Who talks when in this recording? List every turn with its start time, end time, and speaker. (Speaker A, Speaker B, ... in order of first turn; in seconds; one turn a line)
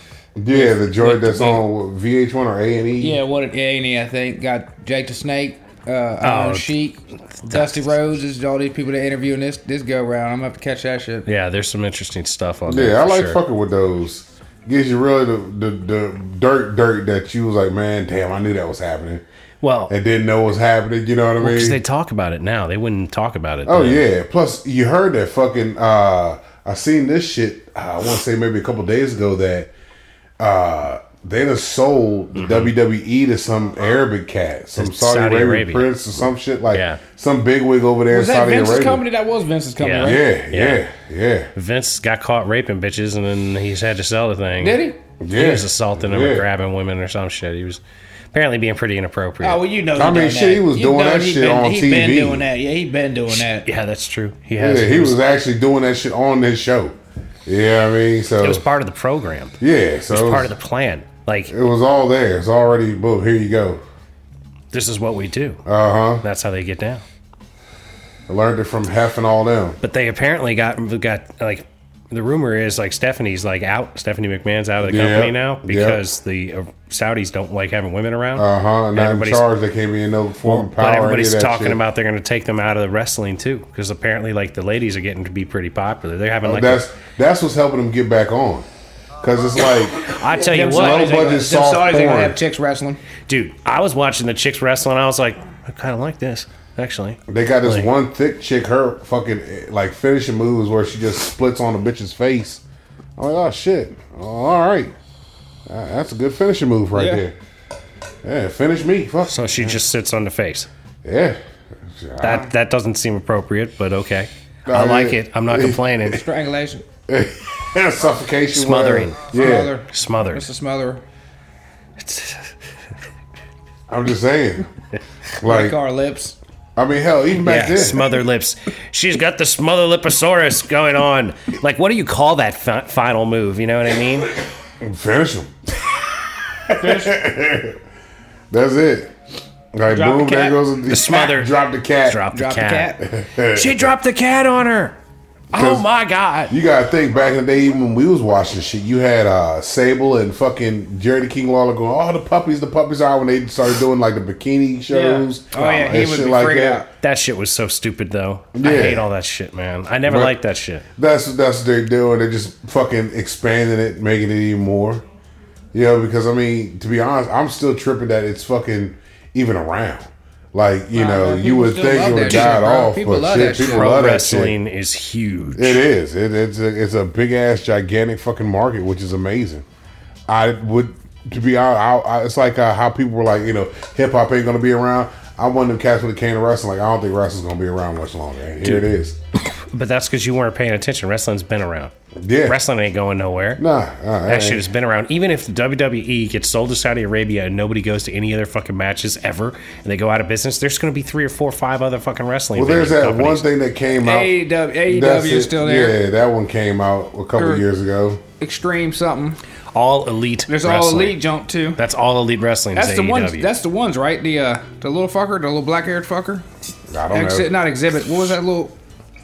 Speaker A: 0.3-3.2
Speaker B: 0.5-1.6
Speaker B: 3.0-11.3
Speaker C: 6.2-6.7
Speaker C: 7.4-8.0
Speaker C: 11.2-13.4
Speaker A: 12.7-19.2
Speaker C: 19.6-19.9
Speaker A: 19.9-21.8
Speaker C: 21.4-24.1
Speaker A: 23.6-29.7
Speaker A: 30.4-39.0
Speaker C: 32.3-32.7
Speaker C: 34.8-36.0
Speaker C: 36.7-37.0
Speaker B: 38.1-40.2
Speaker C: 39.8-40.8
Speaker A: 40.0-41.5
Speaker C: 41.5-49.6
Speaker B: 44.6-45.0
Speaker A: 45.2-46.4
Speaker B: 49.4-53.7
Speaker A: 49.9-52.5
Speaker C: 53.3-55.2
Speaker A: 54.6-58.6
Speaker C: 58.4-59.6
Speaker A: 59.6-60.5
Speaker C: 60.1-61.5
Speaker A: 61.5-63.8
Speaker C: 64.7-65.6
Speaker A: 65.7-66.2
Speaker C: 66.2-67.0
Speaker A: 68.3-69.8
Speaker C: 69.8-79.5
Speaker A: 74.8-76.0
Speaker A: 78.3-81.8
Speaker C: 80.4-86.8
Speaker A: 86.4-88.7
Speaker A: 89.2-90.1
Speaker C: 90.1-91.1
Speaker B: 90.3-93.0
Speaker A: 90.7-92.4
Speaker C: 93.3-97.9
Speaker A: 97.3-102.6
Speaker A: 103.2-104.9
Speaker A: 105.7-107.3
Speaker B: 106.9-107.2
Speaker A: 108.2-109.8
Speaker C: 109.2-110.7
Speaker A: 111.0-112.4
Speaker C: 112.2-116.2
Speaker B: 112.2-112.5
Speaker A: 114.7-116.0
Speaker B: 116.1-116.8
Speaker A: 117.1-119.8
Speaker C: 118.5-119.3
Speaker B: 119.3-121.0
Speaker C: 119.9-120.4
Speaker C: 122.0-122.5
Speaker A: 123.9-124.7
Speaker A: 125.4-125.8
Speaker B: 125.4-126.3
Speaker A: 126.8-128.2
Speaker C: 127.4-134.3
Speaker A: 134.8-135.7
Speaker A: 136.7-137.8
Speaker B: 136.8-137.1
Speaker A: 138.5-139.1
Speaker A: 139.7-142.2
Speaker B: 139.9-140.6
Speaker C: 140.9-144.9
Speaker B: 142.3-143.0
Speaker A: 143.0-143.9
Speaker C: 145.5-146.5
Speaker A: 145.5-145.8
Speaker A: 146.5-156.8
Speaker B: 154.9-156.9
Speaker C: 155.6-155.9
Speaker C: 157.0-160.8
Speaker A: 158.5-159.1
Speaker A: 160.1-160.4
Speaker A: 160.9-165.0
Speaker A: 165.7-174.5
Speaker B: 170.9-174.0
Speaker C: 172.2-172.5
Speaker C: 173.6-175.8
Speaker A: 175.6-179.7
Speaker A: 180.3-189.2
Speaker C: 188.6-188.9
Speaker C: 189.4-191.9
Speaker A: 192.2-192.6
Speaker C: 192.4-193.6
Speaker A: 193.6-194.6
Speaker C: 194.3-203.4
Speaker A: 202.5-204.3
Speaker B: 204.0-206.0
Speaker A: 204.8-208.2
Speaker B: 207.4-207.6
Speaker B: 208.4-209.4
Speaker C: 209.7-211.2
Speaker B: 210.5-211.8
Speaker C: 211.8-213.5
Speaker B: 212.7-216.4
Speaker A: 216.9-217.5
Speaker B: 217.1-218.7